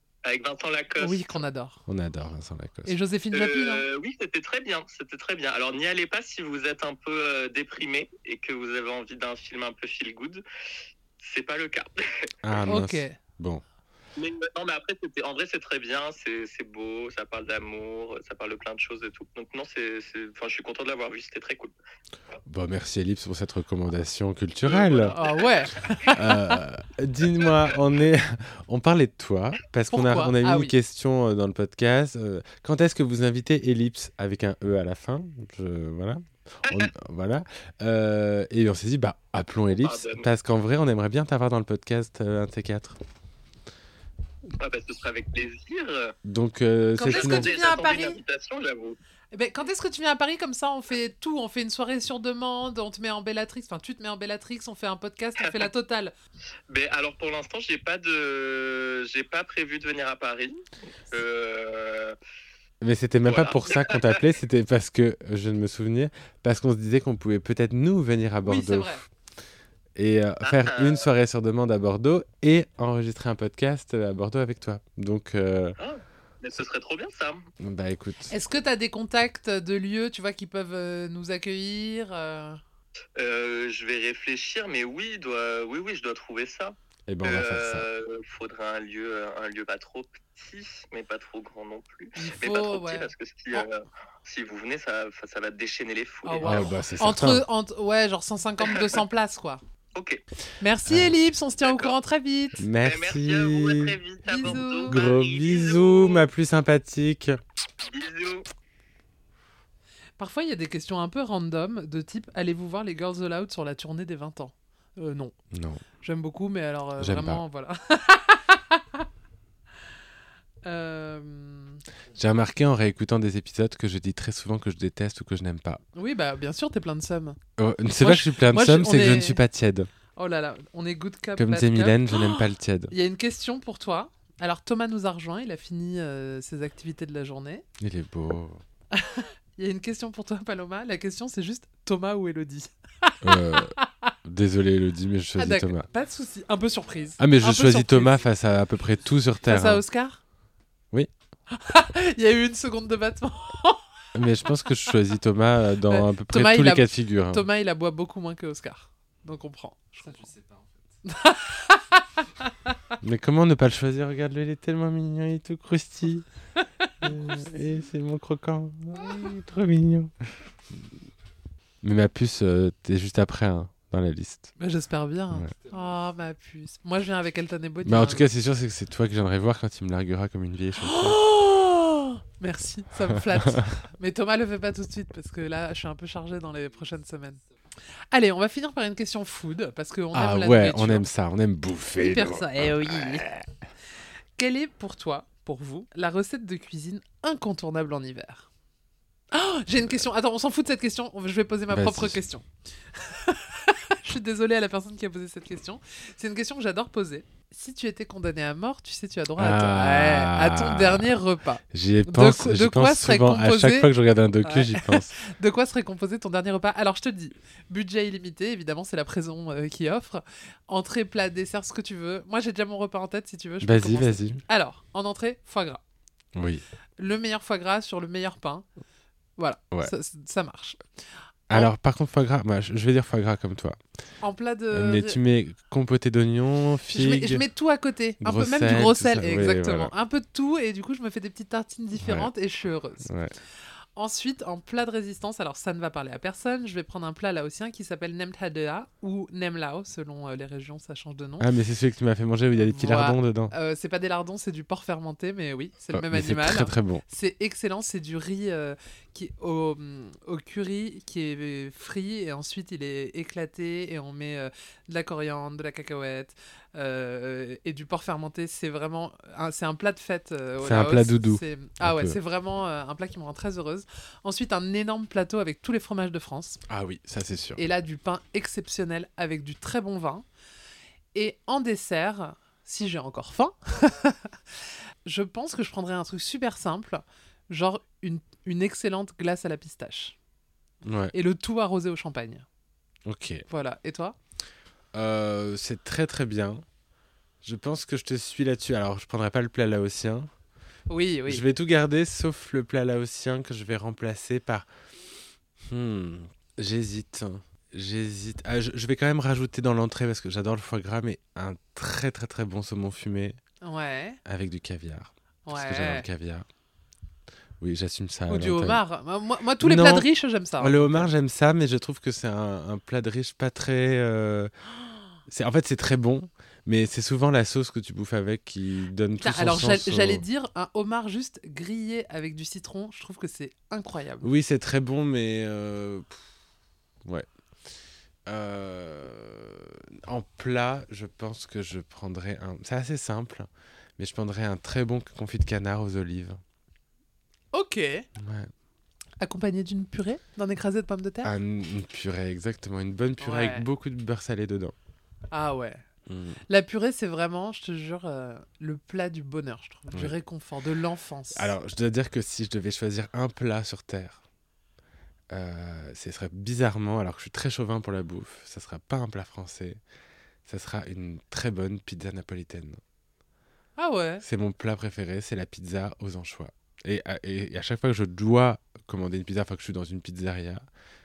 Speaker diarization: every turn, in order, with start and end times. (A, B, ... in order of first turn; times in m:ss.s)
0:00.2-0:01.4 A
0:01.0-0:01.8 B
0:01.9-0:03.0 C
0:02.9-0:03.8 B
0:03.3-0:10.4 A
0:11.2-0:12.3 A
0:12.4-0:13.6 C
0:12.7-0:13.2 B
0:14.2-0:21.8 A
0:22.5-0:25.2 C
0:24.6-0:26.2 A
0:25.1-0:26.4 B
0:26.1-0:43.0 C
0:29.9-0:30.7 B
0:39.8-0:40.3 A
0:44.6-0:46.2 A
0:46.2-0:47.5 C
0:47.0-0:48.2 B
0:47.0-0:49.0 A
0:49.3-0:56.1 B
0:56.7-1:02.2 A
1:02.8-1:09.0 C
1:03.2-1:04.2 A
1:08.4-1:09.0 B
1:10.0-1:15.8 C
1:10.4-1:11.1 A
1:15.8-1:17.5 A
1:17.6-1:18.3 C
1:18.3-1:22.6 B
1:23.2-1:36.7 A
1:27.1-1:27.9 C
1:32.2-1:33.6 B
1:36.2-1:39.6 B
1:36.4-1:37.5 C
1:38.6-1:38.9 A
1:40.0-1:40.2 A
1:40.6-1:42.7 B
1:40.9-1:41.2 C
1:41.6-1:42.0 A
1:42.6-1:47.4 C
1:42.8-1:46.3 A
1:44.2-1:45.0 B
1:47.8-1:48.5 A
1:50.2-1:55.4 B
1:55.5-1:55.8 C
1:56.0-1:59.0 B
1:57.0-1:57.4 C
2:00.6-2:01.8 B
2:02.2-2:05.8 C
2:06.0-2:07.4 B
2:07.6-2:09.9 C
2:08.0-2:09.4 B
2:10.2-2:17.6 B
2:11.4-2:12.9 C
2:17.8-2:18.6 C
2:18.9-2:24.1 B
2:23.2-2:25.9 C
2:25.4-2:28.2 B
2:27.2-2:29.8 C
2:29.5-2:30.2 B
2:31.5-2:33.8 B
2:34.1-2:37.5 C
2:35.9-2:40.4 B
2:41.0-2:42.9 B
2:43.0-2:46.2 C
2:46.6-2:47.2 B
2:47.0-2:50.1 C
2:51.8-2:54.5 C
2:54.6-2:58.3 B
2:57.8-3:01.2 C
3:00.8-3:07.4 B
3:03.4-3:03.7 C
3:08.1-3:11.1 B
3:10.1-3:13.5 C
3:12.0-3:13.3 B
3:14.4-3:18.5 B
3:19.3-3:33.9 B
3:21.7-3:22.2 C
3:29.4-3:31.1 C
3:31.7-3:35.2 C
3:34.4-3:45.8 B
3:43.6-3:44.4 C
3:46.4-3:46.6 C
3:47.0-3:48.7 B
3:49.4-3:50.8 B
3:51.5-3:53.8 C
3:54.2-3:55.2 B
3:54.7-3:57.4 C
3:56.9-4:03.1 B
3:58.2-3:59.9 C
4:02.0-4:02.3 C
4:03.0-4:03.4 C
4:04.0-4:11.5 B
4:11.4-4:13.5 C
4:12.6-4:36.6 B
4:15.9-4:17.0 C
4:30.6-4:32.2 C
4:36.7-4:37.6 C
4:37.6-4:40.2 B
4:41.1-4:44.3 B
4:45.1-4:50.2 B
4:50.8-4:51.2 C
4:51.1-4:52.5 B
4:53.0-4:53.4 C
4:53.5-4:54.2 B
4:54.9-4:56.6 C
4:57.4-5:00.3 C
5:00.9-5:01.5 B
5:01.3-5:04.7 C
5:05.6-5:13.4 C
5:13.6-5:14.2 B
5:14.3-5:16.5 C
5:15.5-5:16.1 B
5:17.6-5:18.8 C
5:18.3-5:21.1 B
5:19.6-5:20.1 C
5:20.6-5:24.5 C
5:25.3-5:30.2 C
5:29.2-5:34.3 B
5:34.2-5:36.2 C
5:38.3-5:46.4 C
5:47.5-5:48.1 B
5:48.2-5:48.5 C
5:49.2-5:51.3 B
5:51.2-5:54.7 C
5:53.2-5:53.7 B
5:55.3-5:55.8 B
5:56.1-5:56.4 C
5:56.5-6:01.5 B
6:01.3-6:04.2 C
6:05.3-6:09.8 C
6:10.5-6:12.8 C
6:13.8-6:14.2 B
6:14.2-6:20.6 C